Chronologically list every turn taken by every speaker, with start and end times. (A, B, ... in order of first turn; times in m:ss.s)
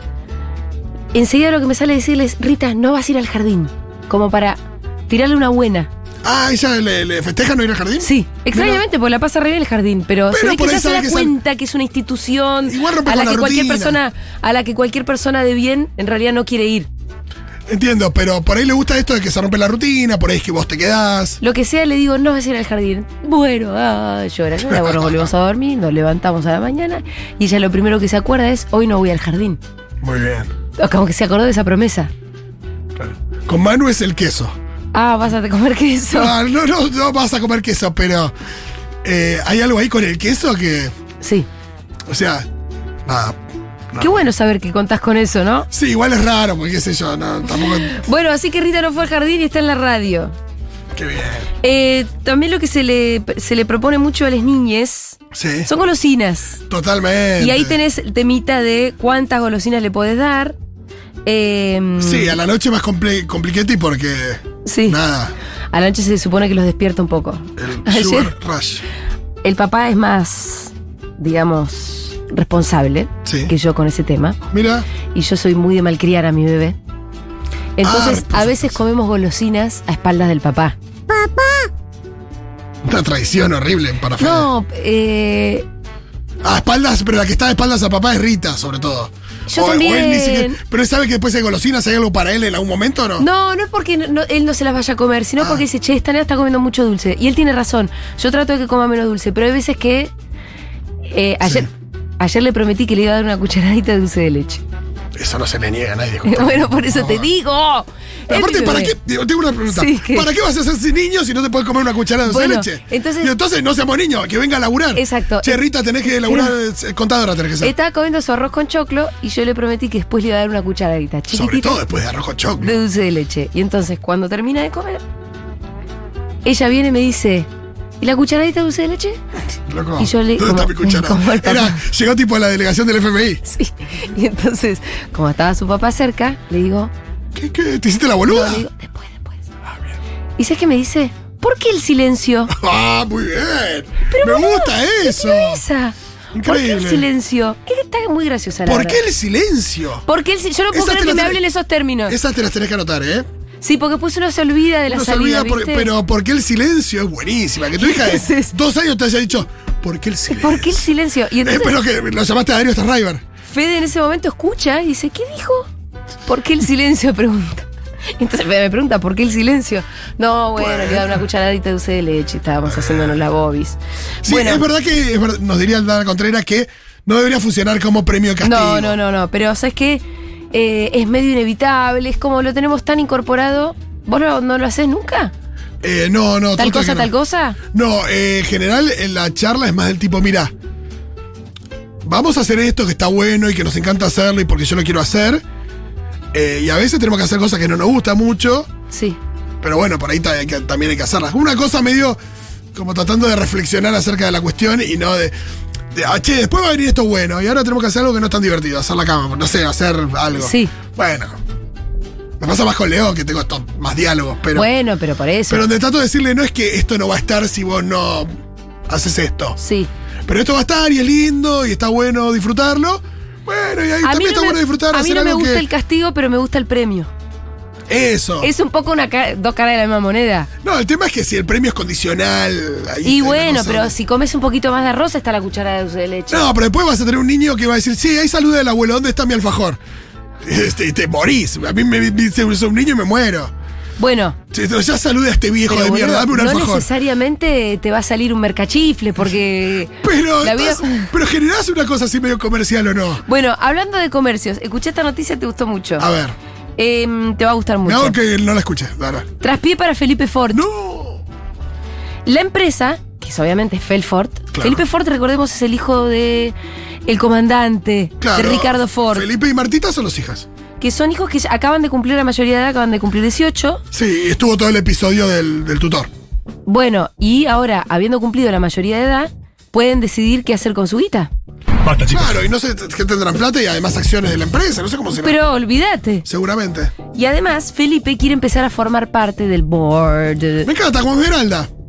0:01.1-0:05.9 A
0:06.2-0:08.8 B
0:08.0-0:16.9 A
0:10.3-0:11.3 B
0:12.6-0:14.0 B
0:17.7-0:21.4 B
0:21.4-0:29.6 A
0:24.6-0:25.3 B
0:30.0-0:30.5 B
0:30.8-0:32.1 A
0:33.0-0:34.5 B
0:34.9-0:36.3 A
0:36.1-0:38.3 B
0:39.0-0:40.9 B
0:41.2-0:41.5 A
0:42.1-0:42.5 B
0:43.0-0:43.4 B
0:43.9-0:44.2 B
0:44.0-0:45.7 A
0:45.7-0:47.9 B
0:47.6-0:50.3 A
0:50.9-0:51.5 B
0:51.6-0:56.6 A
0:55.3-0:55.7 B
0:56.7-0:57.8 B
0:57.4-1:00.6 A
1:01.2-1:02.4 A
1:02.0-1:05.3 B
1:04.6-1:05.0 A
1:05.7-1:08.3 A
1:07.6-1:08.8 B
1:09.4-1:14.4 A
1:13.2-1:13.5 B
1:14.5-1:14.8 B
1:15.1-1:16.8 A
1:17.8-1:20.8 A
1:17.8-1:18.8 B
1:22.8-1:24.5 B
1:24.2-1:25.6 A
1:26.4-1:33.2 B
1:29.5-1:30.6 A
1:33.2-1:40.1 A
1:35.4-1:35.6 B
1:41.1-1:44.6 A
1:41.4-1:41.7 B
1:45.1-1:47.3 B
1:46.2-1:48.9 A
1:48.3-1:57.7 B
1:49.7-1:50.3 A
1:52.2-1:53.3 A
1:54.9-1:56.5 A
1:57.6-2:01.8 A
2:01.3-2:02.8 B
2:02.6-2:05.0 A
2:06.4-2:07.5 A
2:08.0-2:09.2 A
2:09.6-2:13.4 B
2:10.0-2:11.8 A
2:13.4-2:16.9 A
2:17.3-2:18.6 B
2:18.2-2:19.4 A
2:19.7-2:20.0 B
2:20.4-2:22.5 A
2:22.5-2:25.6 B
2:24.0-2:29.0 A
2:26.3-2:27.0 B
2:28.6-2:30.0 B
2:30.0-2:32.2 A
2:30.7-2:31.4 B
2:32.1-2:33.2 B
2:33.6-2:35.9 A
2:34.9-2:40.8 B
2:37.8-2:38.5 A
2:40.3-2:41.8 A
2:41.4-2:43.2 B
2:43.5-2:45.7 A
2:46.3-2:47.6 A
2:48.2-2:54.6 A
2:50.6-2:51.2 B
2:52.6-2:53.2 B
2:54.2-2:58.9 B
2:58.4-3:05.3 A
3:05.8-3:07.1 B
3:06.6-3:07.6 A
3:07.7-3:10.5 B
3:12.0-3:15.4 B
3:16.3-3:18.7 B
3:18.9-3:19.2 A
3:19.6-3:22.2 B
3:22.7-3:25.3 B
3:25.9-3:31.4 B
3:30.4-3:30.7 A
3:32.4-3:34.7 B
3:34.5-3:35.6 A
3:35.5-3:38.3 B
3:38.9-3:39.6 B
3:39.6-3:39.9 A
3:40.2-3:45.6 B
3:44.0-3:47.1 A
3:47.9-3:48.5 B
3:48.4-3:50.5 A
3:50.6-3:53.9 B
3:53.0-3:56.5 A
3:56.3-3:59.8 B
4:00.4-4:03.5 B
4:04.0-4:04.4 A
4:04.5-4:06.9 B
4:05.7-4:11.1 A
4:10.0-4:13.2 B
4:13.2-4:16.0 A
4:16.0-4:16.4 B
4:16.8-4:18.2 A
4:17.8-4:19.3 B
4:19.4-4:20.6 A
4:20.5-4:21.2 B
4:22.2-4:26.5 A
4:24.5-4:24.8 B
4:27.1-4:29.2 A
4:28.2-4:30.5 B
4:30.8-4:33.8 A
4:33.9-4:36.1 B
4:36.6-4:41.3 A
4:42.0-4:45.4 B
4:45.2-4:46.2 A
4:46.2-4:46.9 B
4:47.1-4:50.7 A
4:50.6-4:51.7 B